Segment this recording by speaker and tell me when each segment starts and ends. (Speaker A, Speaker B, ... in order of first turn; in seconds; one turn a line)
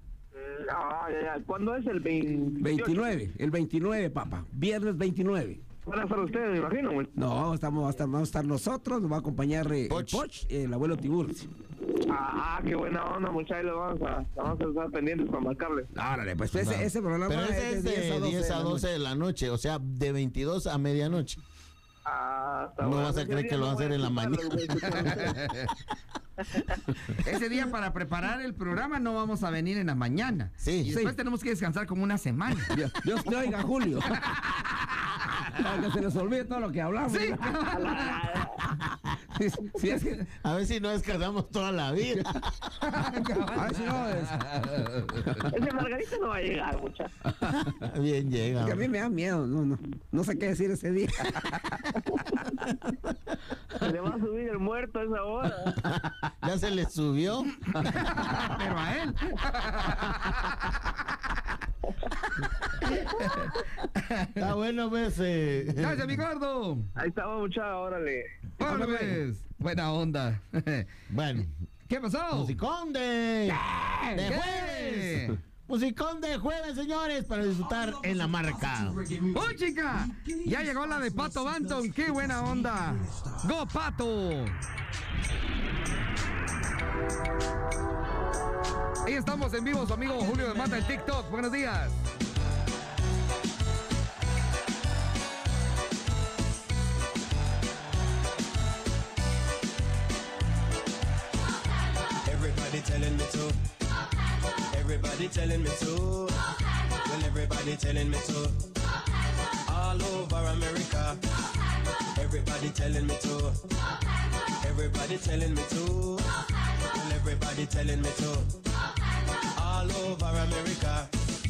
Speaker A: 0.3-3.1
Speaker B: 2.6-5.6
Speaker A: 5.9-7.1
Speaker B: 7.2-11.5
Speaker C: 9.9-10.2
Speaker A: 12.1-15.9
Speaker B: 15.9-18.9
Speaker C: 16.5-21.4
Speaker A: 22.1-25.4
Speaker C: 22.8-25.3
Speaker D: 25.4-25.7
Speaker D: 27.2-32.7
Speaker C: 30.6-30.9
Speaker B: 30.9-31.1
Speaker B: 32.7-34.2
Speaker D: 34.3-35.2
Speaker B: 35.6-37.6
Speaker D: 37.1-38.2
Speaker A: 37.7-38.6
Speaker B: 39.3-40.3
Speaker C: 40.4-42.5
Speaker D: 42.8-45.5
Speaker B: 43.6-44.4
Speaker A: 45.5-47.1
Speaker B: 47.4-47.8
Speaker C: 47.7-48.9
Speaker B: 48.6-51.9
Speaker A: 53.8-55.8
Speaker C: 55.8-57.5
Speaker D: 57.9-60.7
Speaker D: 62.9-64.3
Speaker C: 64.4-66.2
Speaker D: 65.8-66.9
Speaker A: 67.0-68.3
Speaker D: 68.6-70.9
Speaker B: 68.6-69.2
Speaker C: 71.1-71.5
Speaker D: 71.9-72.6
Speaker C: 72.3-79.0
Speaker B: 73.5-74.3
Speaker D: 74.3-75.4
Speaker D: 79.3-84.6
Speaker D: 89.0-92.0
Speaker E: 102.2-103.6
Speaker E: 104.7-106.4
Speaker E: 107.0-108.7
Speaker E: 109.7-111.2
Speaker E: 112.2-113.6
Speaker E: 114.6-116.3
Speaker E: 116.8-118.6
Speaker E: 119.5-121.1